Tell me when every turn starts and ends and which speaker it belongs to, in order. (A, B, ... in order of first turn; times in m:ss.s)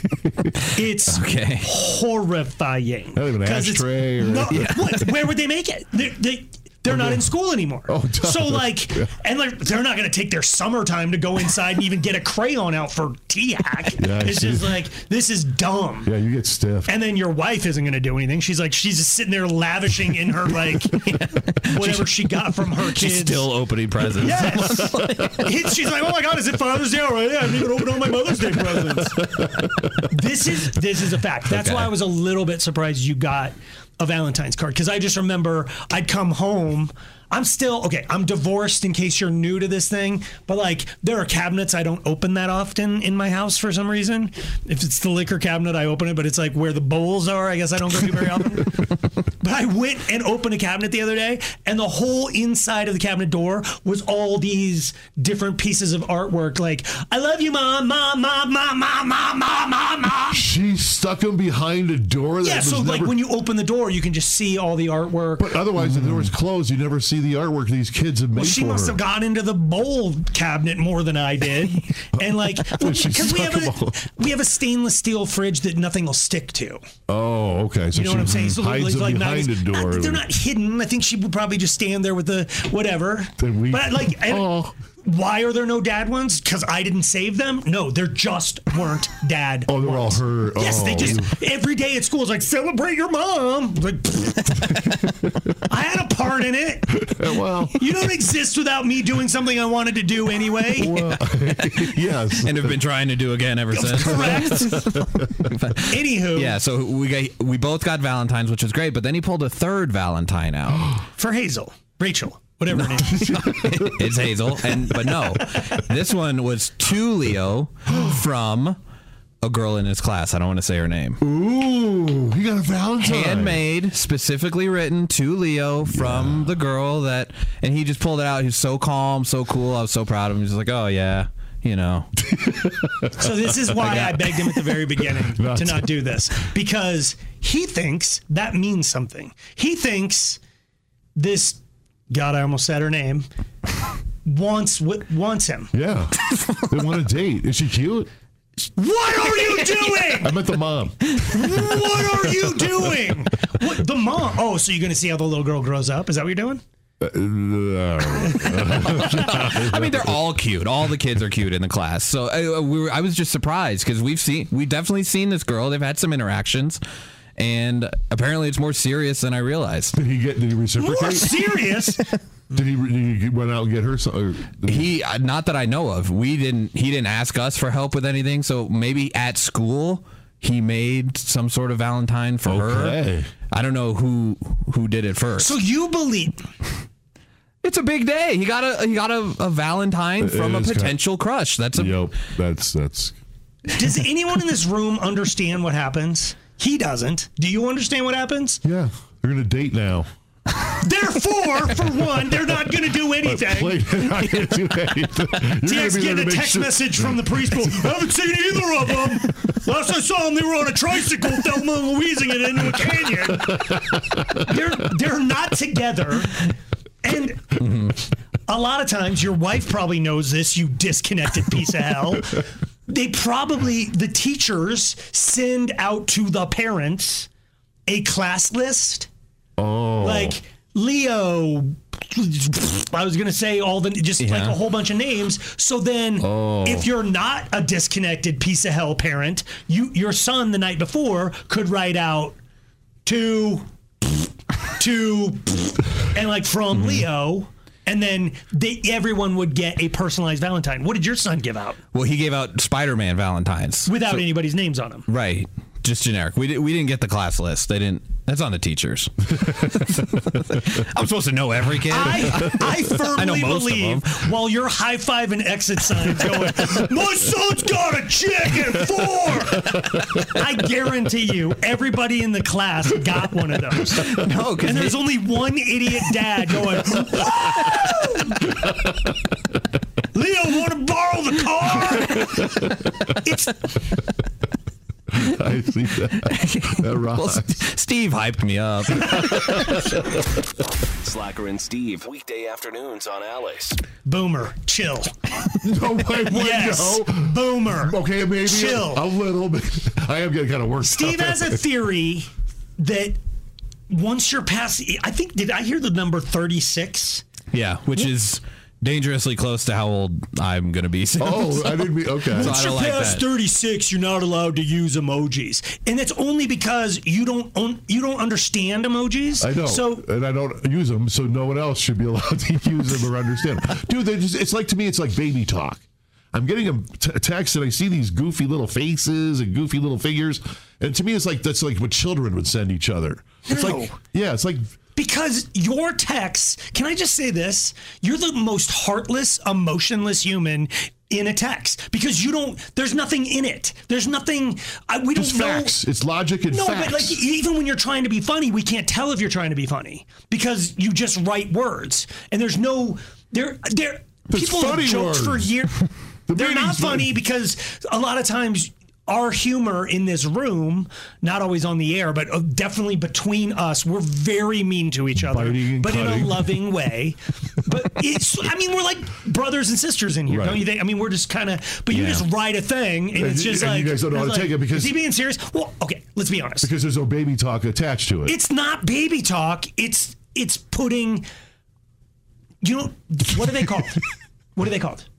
0:00.7-0:16.1 A
0:01.0-0:01.7 B
0:03.1-0:04.7 C
0:04.5-0:05.1 B
0:06.8-0:07.3 C
0:07.9-0:09.1 C
0:14.0-0:14.8 C
0:16.0-0:16.9 C
0:16.8-0:21.1 A
0:21.0-0:25.4 B
0:21.7-0:23.5 A
0:24.2-0:29.2 A
0:24.9-0:25.2 C
0:29.0-0:30.0 C
0:30.1-0:48.8 A
0:31.5-0:32.0 B
0:49.4-1:00.4 A
1:00.3-1:03.2 C
1:02.4-1:05.9 A
1:05.4-1:09.0 C
1:08.3-1:16.8 A
1:12.3-1:14.1 C
1:17.1-1:20.2 C
1:17.9-1:24.5 A
1:23.4-1:24.8 C
1:25.0-1:34.8 A
1:29.7-1:31.3 C
1:35.7-1:36.9 A
1:37.0-1:37.8 C
1:37.7-1:41.0 A
1:40.8-1:42.8 C
1:41.6-1:51.0 B
1:43.7-1:44.8 A
1:44.2-1:45.5 C
1:45.9-1:46.6 A
1:51.2-1:53.3 A
1:52.8-1:58.8 B
1:53.1-1:54.0 C
1:59.4-2:01.2 B
2:01.2-2:03.6 C
2:03.0-2:12.1 B
2:05.8-2:06.6 C
2:12.2-2:13.3 C
2:13.2-2:20.4 A
2:13.8-2:14.6 B
2:15.3-2:15.9 C
2:21.2-2:23.3 A
2:24.2-2:25.7 A
2:25.7-2:28.1 C
2:28.8-2:30.4 A
2:30.2-2:31.1 C
2:31.2-2:36.6 A
2:37.0-2:40.2 C
2:38.7-2:46.8 B
2:47.4-2:49.9 B
2:49.9-2:51.3 C
2:50.8-2:52.0 A
2:52.5-2:54.9 C
2:54.7-3:03.0 B
3:02.4-3:03.3 C
3:03.5-3:05.6 B
3:05.4-3:06.4 A
3:07.6-3:12.0 B
3:10.2-3:11.0 C
3:11.7-3:13.2 C
3:13.7-3:18.6 A
3:18.6-3:20.1 C
3:20.8-3:23.9 A
3:23.2-3:27.8 C
3:25.6-3:33.8 A
3:33.4-3:34.3 C
3:34.4-3:36.4 A
3:37.0-3:37.6 A
3:38.5-3:47.3 A
3:47.9-3:49.1 A
3:49.6-3:50.4 C
3:50.0-4:02.4 A
3:54.2-3:54.6 B
3:56.2-3:56.9 C
4:03.0-4:03.7 A
4:04.8-4:11.8 A
4:06.7-4:07.1 B
4:11.9-4:14.3 B
4:13.8-4:15.0 A
4:15.1-4:24.2 B
4:21.9-4:34.1 A
4:33.9-4:35.1 B
4:34.6-4:38.4 A
4:40.1-4:42.3 A
4:43.2-4:43.7 A
4:45.1-4:47.6 C
4:46.3-4:49.9 B
4:49.0-4:50.2 C
4:51.0-4:53.8 D
4:54.0-4:55.1 A
4:55.6-5:01.6 C
4:56.2-4:59.0 A
5:00.8-5:03.2 A
5:03.9-5:07.2 A
5:07.5-5:13.3 B
5:11.2-5:12.6 C
5:12.2-5:20.0 A
5:19.4-5:34.7 C
5:33.4-5:34.0 A
5:35.0-5:45.8 A
5:45.1-5:47.2 C
5:46.5-5:55.8 A
5:54.3-5:55.5 C
5:56.3-5:57.1 C
5:56.3-6:16.7 A
6:05.2-6:06.5 C
6:10.3-6:10.6 C
6:11.9-6:12.3 B
6:13.1-6:15.0 C
6:16.6-6:18.4 C
6:18.2-6:21.2 A
6:22.6-6:24.0 A
6:24.6-6:25.1 A